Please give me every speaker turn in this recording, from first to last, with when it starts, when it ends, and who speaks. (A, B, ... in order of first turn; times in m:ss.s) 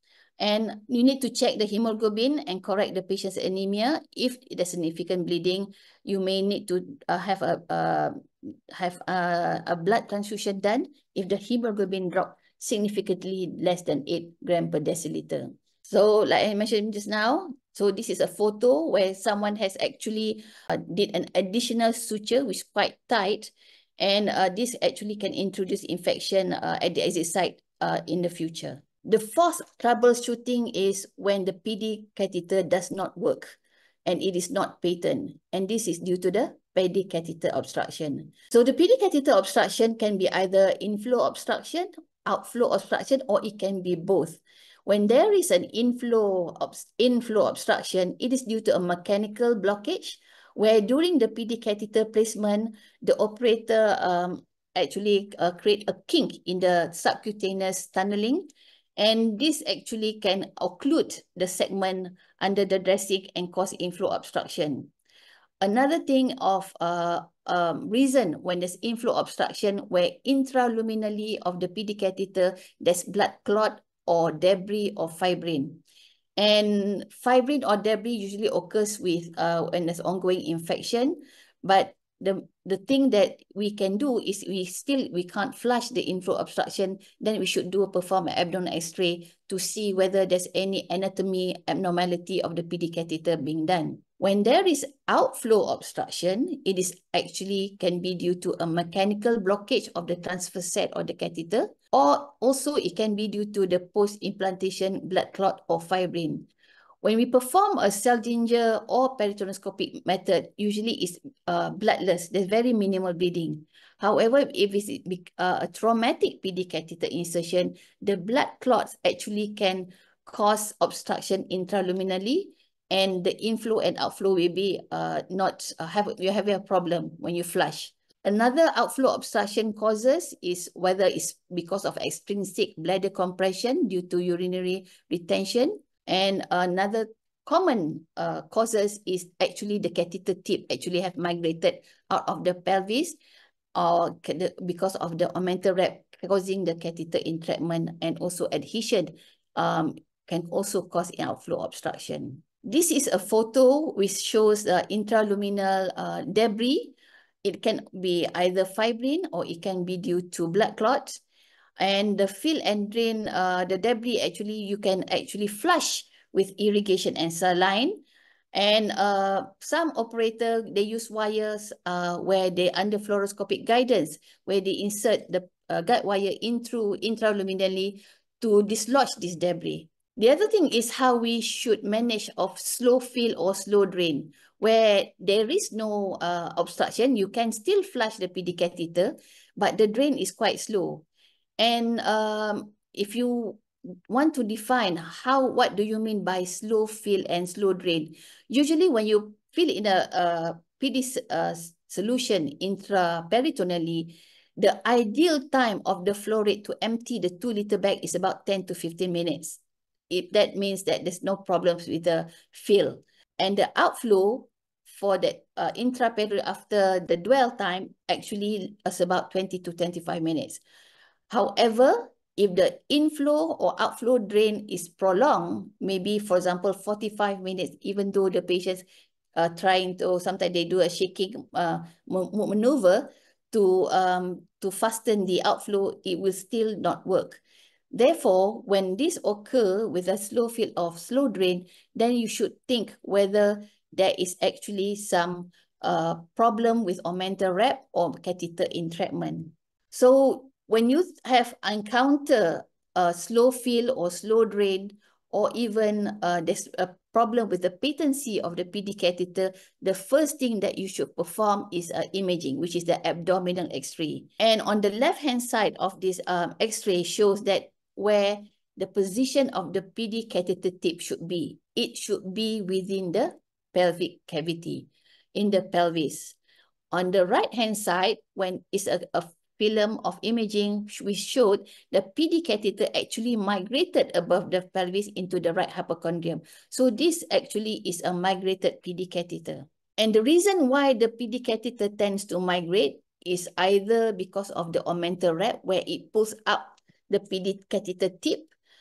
0:00.4-1:04.9 A
1:05.6-1:15.8 A
1:16.4-1:46.5 A
1:47.0-2:23.2 A
2:23.7-2:41.2 A
2:41.8-3:11.0 A
3:11.6-3:29.6 A
3:30.1-3:40.6 A
3:41.3-3:48.8 A
3:49.4-3:57.4 A
3:57.9-4:36.4 A
4:36.9-4:58.5 A